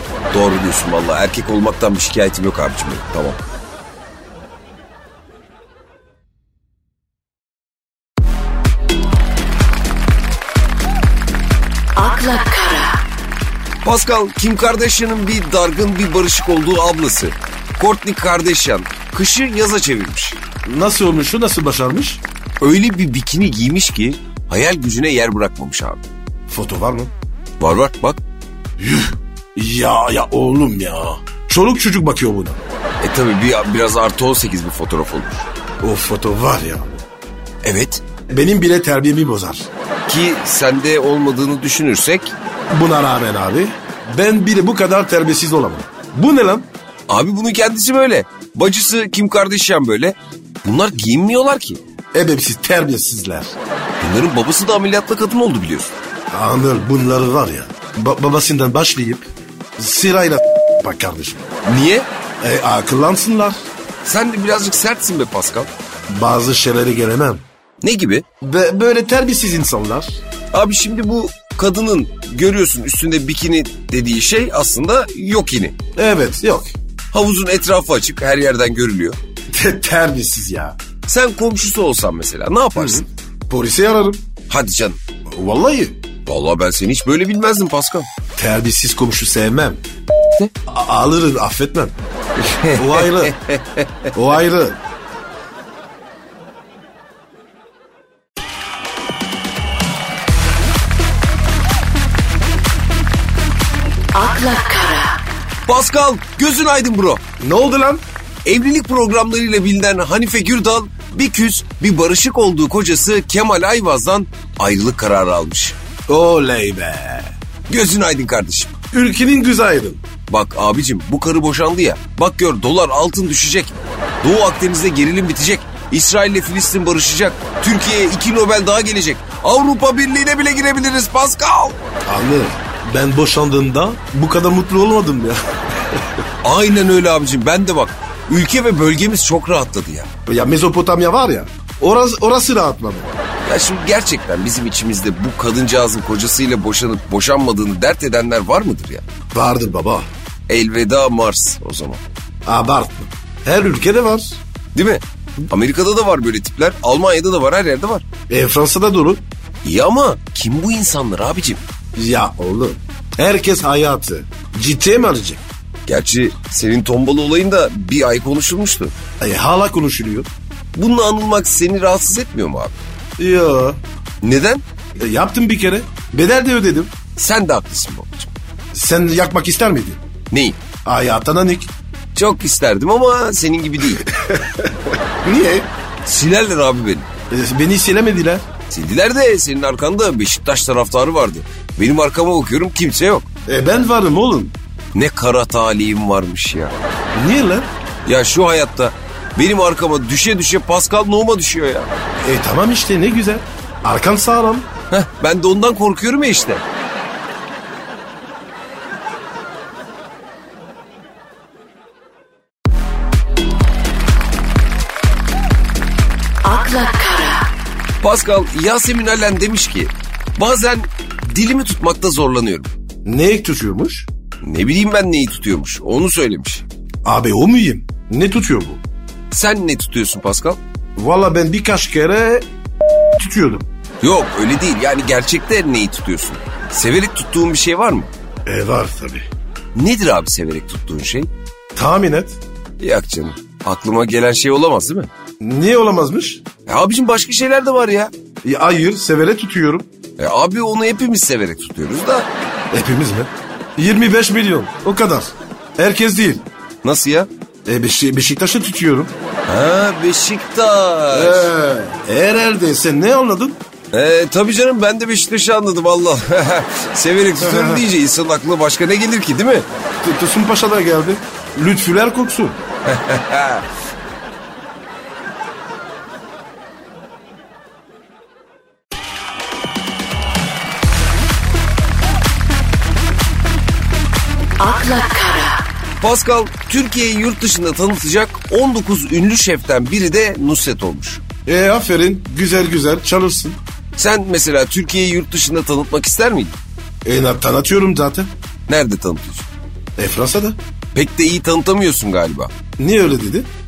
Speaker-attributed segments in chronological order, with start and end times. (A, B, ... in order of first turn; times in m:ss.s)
0:00.3-0:03.4 A
0:12.0-0:12.9 B
0:13.8-0:20.4 A
0:20.6-0:22.2 C
0:22.6-0:26.0 A
0:26.5-0:27.1 C
0:27.6-0:28.2 A
0:28.8-0:32.6 C
0:33.0-0:35.5 A
0:35.8-0:37.0 C
0:37.6-0:38.0 A
0:38.3-0:39.7 C
0:40.1-0:42.3 A
0:42.7-0:46.7 C
0:47.1-0:51.8 A
0:52.1-0:53.6 C
0:54.0-0:55.9 A
0:56.3-0:59.2 C
0:59.8-1:01.4 C
1:01.7-1:02.1 A
1:02.4-1:03.6 C
1:04.0-1:05.7 A
1:06.1-1:07.4 C
1:07.8-1:08.2 A
1:08.4-1:10.2 C
1:10.5-1:15.8 A
1:16.0-1:16.8 C
1:17.1-1:19.2 A
1:19.5-1:20.8 C
1:21.1-1:23.1 A
1:22.8-1:24.2 C
1:24.5-1:25.0 A
1:25.3-1:26.0 C
1:26.3-1:28.1 A
1:28.4-1:29.8 C
1:30.7-1:32.0 C
1:32.4-1:34.1 A
1:32.7-1:33.4 C
1:34.1-1:34.8 C
1:44.2-1:45.2 B
1:45.7-1:47.2 A
1:47.4-1:48.0 C
1:48.4-1:55.8 A
1:56.1-1:57.3 C
1:57.7-1:58.7 A
1:58.9-2:00.0 C
2:00.3-2:11.8 A
2:12.1-2:16.0 C
2:16.4-2:20.1 A
2:20.3-2:23.1 C
2:23.5-2:29.0 A
2:29.3-2:30.1 C
2:30.5-2:32.0 A
2:32.5-2:34.4 C
2:34.8-2:38.1 A
2:38.3-2:39.2 C
2:39.6-2:41.6 A
2:42.0-2:45.4 C
2:45.9-2:48.9 A
2:49.2-2:50.3 C
2:50.7-2:52.8 A
2:53.2-2:53.8 C
2:54.2-2:54.6 A
2:55.0-2:56.9 C
2:57.2-2:58.3 A
2:58.7-3:00.0 C
3:00.3-3:00.6 A
3:00.8-3:01.7 C
3:02.2-3:04.1 A
3:04.1-3:05.7 C
3:06.0-3:07.1 A
3:07.3-3:08.5 C
3:08.7-3:13.3 A
3:13.5-3:14.5 C
3:14.9-3:16.8 A
3:17.1-3:17.7 C
3:18.1-3:21.9 A
3:22.2-3:24.7 C
3:24.9-3:26.6 A
3:36.4-3:37.4 B
3:38.0-3:42.7 A
3:43.0-3:44.1 C
3:44.4-3:46.6 A
3:47.0-3:48.8 C
3:49.3-3:50.6 A
3:51.0-3:52.5 C
3:53.2-3:53.7 C
3:54.0-3:58.1 A
3:58.5-3:59.3 C
3:59.8-4:01.3 A
4:01.8-4:02.4 C
4:02.8-4:05.1 A
4:05.4-4:06.4 C
4:06.7-4:08.1 A
4:08.4-4:09.9 C
4:10.2-4:12.3 A
4:12.7-4:16.4 C
4:16.8-4:17.3 A
4:17.7-4:19.1 C
4:19.5-4:21.5 A
4:21.1-4:23.6 C
4:23.9-4:29.7 A
4:27.4-4:27.9 C
4:30.0-4:32.6 C
4:32.9-4:33.6 A
4:44.6-4:45.6 B
4:46.0-4:51.2 A
4:51.5-4:53.6 C
4:54.0-4:56.6 A
4:57.0-4:58.3 C
4:58.7-4:59.5 A
5:00.0-5:00.6 C
5:00.9-5:02.5 A
5:02.8-5:03.5 C